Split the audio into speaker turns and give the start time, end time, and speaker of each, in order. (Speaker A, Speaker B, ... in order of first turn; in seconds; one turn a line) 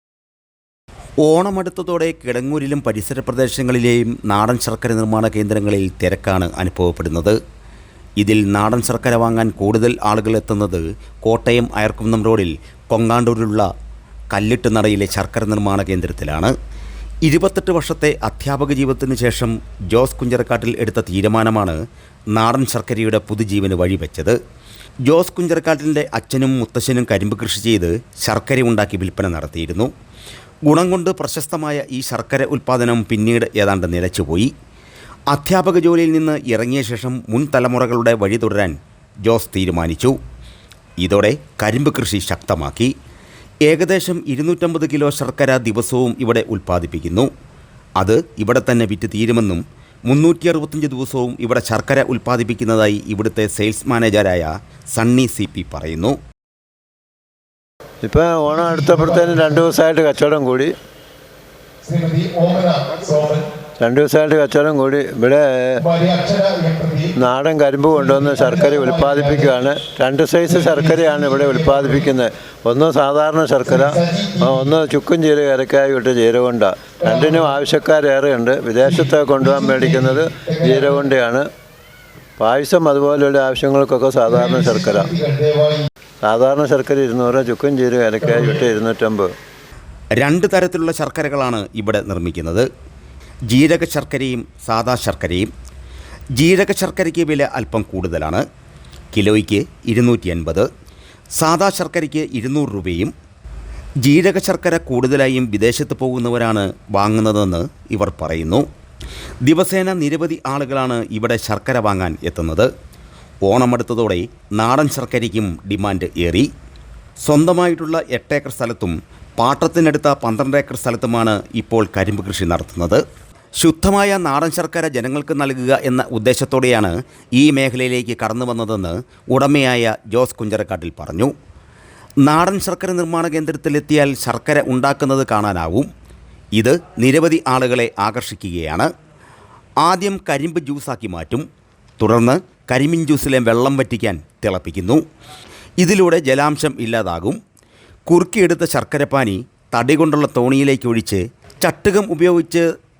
Speaker A: 1.2-7.3
Speaker A: 8.2-13.7
Speaker A: 14.3-16.5
Speaker A: 17.2-21.8
Speaker A: 22.3-24.3
Speaker A: 25.1-29.9
Speaker A: 30.7-34.5
Speaker A: 35.3-40.1
Speaker A: 41.0-42.9
Speaker A: 43.7-47.3
Speaker A: 48.0-56.1
Speaker B: 58.0-60.7
Speaker C: 61.9-63.4
Speaker B: 63.8-65.9
Speaker C: 66.0-67.0
Speaker B: 67.1-81.4
Speaker B: 82.4-85.3
Speaker C: 85.3-85.8
Speaker B: 86.2-89.3
Speaker A: 90.2-92.6
Speaker A: 93.5-95.5
Speaker A: 96.4-98.4
Speaker A: 99.1-100.7
Speaker A: 101.4-103.1
Speaker A: 104.0-108.6
Speaker A: 109.5-112.7
Speaker A: 113.4-116.5
Speaker A: 117.2-123.0
Speaker A: 123.6-131.3
Speaker A: 132.2-135.9
Speaker A: 136.6-138.9
Speaker A: 139.8-141.4
Speaker A: 142.0-145.0
Speaker A: 145.8-147.4
Speaker A: 148.1-152.6